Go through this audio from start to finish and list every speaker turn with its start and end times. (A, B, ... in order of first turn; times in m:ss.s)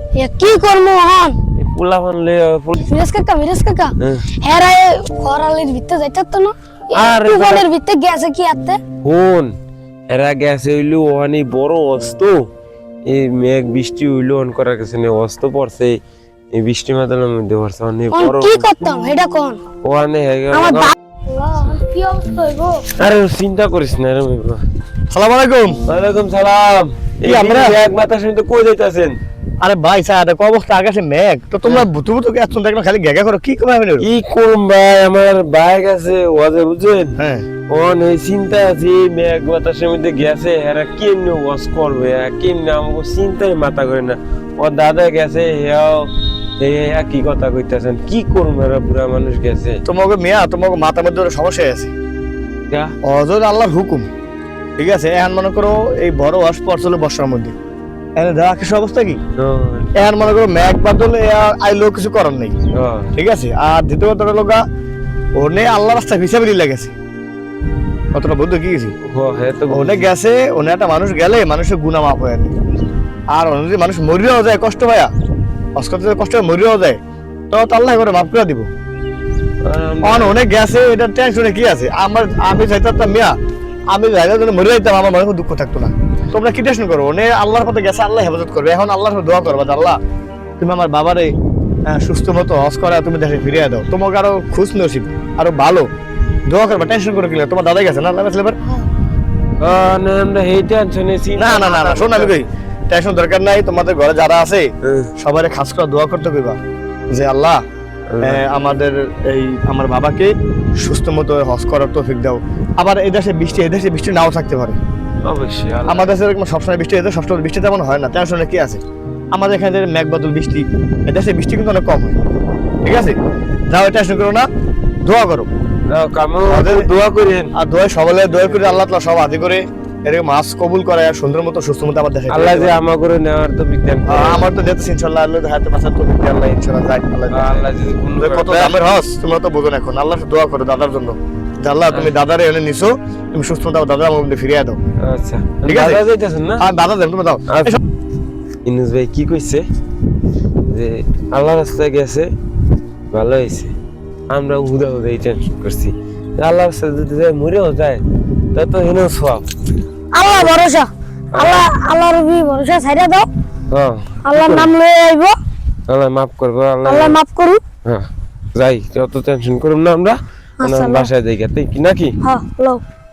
0:00.2-0:01.4 A
0:01.5-0:02.8 B
0:02.8-0:08.8 A
0:04.0-0:04.3 B
0:06.9-0:07.6 B
0:09.0-0:09.6 B
0:10.1-0:12.5 B
0:13.0-0:16.0 B
0:16.5-0:18.7 B
0:18.1-0:19.6 A
0:19.8-0:20.9 B
0:20.5-0:22.8 A
0:23.0-0:24.6 B
0:25.1-0:25.8 C
0:25.9-0:29.1 B
0:27.2-0:27.8 C
0:29.6-0:34.1 C
0:34.0-0:37.2 B
0:37.2-0:37.4 C
0:37.7-0:46.1 B
0:46.6-0:49.8 B
0:49.8-0:51.9 C
0:53.0-0:54.1 C
0:54.8-0:57.5 C
0:58.2-0:59.2 C
0:59.4-0:59.9 B
1:00.0-1:02.5 C
1:02.7-1:03.1 B
1:03.1-1:04.6 C
1:05.4-1:06.9 C
1:08.1-1:08.9 C
1:09.0-1:10.1 B
1:09.7-1:12.5 C
1:13.3-1:15.1 C
1:15.7-1:17.0 C
1:17.5-1:18.7 C
1:19.6-1:20.4 B
1:20.0-1:23.4 C
1:23.9-1:30.0 C
1:30.6-1:31.3 C
1:31.9-1:35.9 C
1:36.5-1:38.6 C
1:39.6-1:42.4 B
1:41.4-1:46.6 C
1:44.8-1:45.1 B
1:47.1-1:47.6 C
1:48.1-1:48.4 B
1:48.2-1:54.8 C
1:55.2-1:56.2 B
1:55.9-1:58.8 C
1:59.3-2:02.2 C
2:02.8-2:03.2 C
2:03.7-2:04.5 C
2:05.0-2:05.5 C
2:05.9-2:07.5 B
2:06.5-2:06.8 C
2:07.6-2:12.8 C
2:08.3-2:08.8 B
2:12.3-2:14.4 B
2:14.1-2:17.7 C
2:17.3-2:18.8 B
2:18.2-2:24.8 C
2:25.0-2:26.6 B
2:25.6-2:26.0 C
2:26.6-2:27.8 C
2:27.5-2:27.8 B
2:28.6-2:29.6 B
2:30.7-2:32.3 B
2:33.1-2:33.7 B
2:34.3-2:38.0 B
2:38.5-2:39.4 B
2:40.1-2:43.3 A
2:41.3-2:41.6 B
2:43.7-2:44.7 B
2:44.2-2:45.4 A
2:45.9-2:47.2 B
2:46.8-2:47.6 A
2:47.8-2:52.2 B
2:50.6-2:51.1 A
2:52.2-2:52.8 A